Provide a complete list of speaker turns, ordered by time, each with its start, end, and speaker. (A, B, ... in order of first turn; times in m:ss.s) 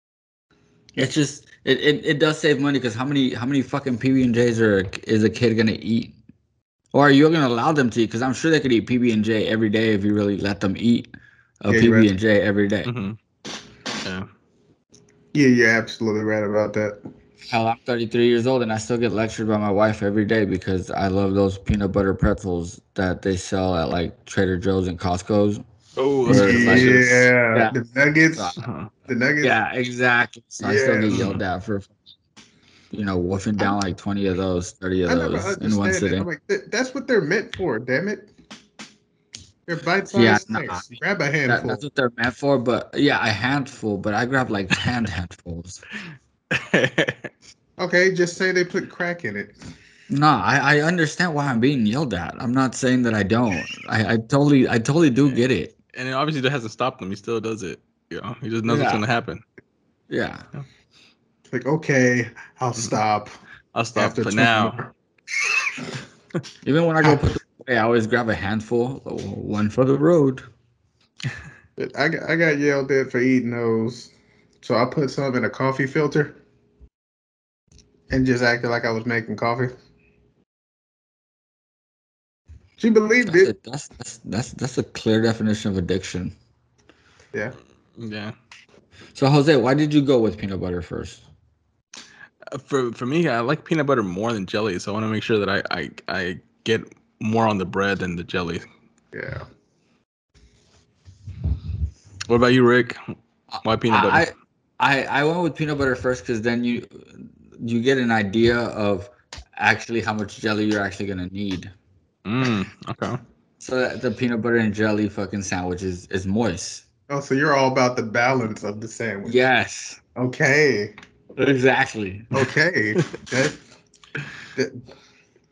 0:01.0-0:06.2 A
0:06.9-0:12.9 A
0:11.7-0:12.1 B
0:12.8-0:13.2 C
0:15.3-0:17.0 B
0:17.5-0:25.6 A
0:26.0-0:27.3 C
0:26.2-0:27.7 A
0:26.2-0:28.6 B
0:28.6-0:28.9 C
0:29.1-0:29.6 B
0:29.4-0:32.0 A
0:30.6-0:31.3 B
0:31.1-0:31.4 C
0:32.9-0:36.3 A
0:35.0-0:38.3 B
0:39.7-0:41.8 B
0:40.1-0:45.8 A
0:46.5-0:47.3 C
0:47.8-0:49.6 B
0:50.1-0:55.7 A
0:55.9-0:59.4 C
0:58.6-0:59.0 A
1:00.1-1:00.4 A
1:01.5-1:03.3 B
1:03.7-1:04.8 C
1:03.9-1:04.9 B
1:06.6-1:10.4 A
1:07.0-1:07.3 B
1:11.8-1:16.4 B
1:18.1-1:19.7 B
1:22.8-1:23.5 B
1:23.2-1:26.3 A
1:28.0-1:28.3 C
1:29.1-1:31.2 A
1:32.5-1:38.6 C
1:39.1-1:39.4 B
1:42.3-1:43.0 C
1:43.5-1:51.7 A
1:43.6-1:44.3 C
1:52.2-1:53.2 C
1:53.6-1:56.8 A
1:57.1-1:59.4 B
1:59.2-2:00.0 A
2:00.2-2:00.9 B
2:01.4-2:02.3 A
2:02.3-2:03.6 B
2:04.6-2:04.8 B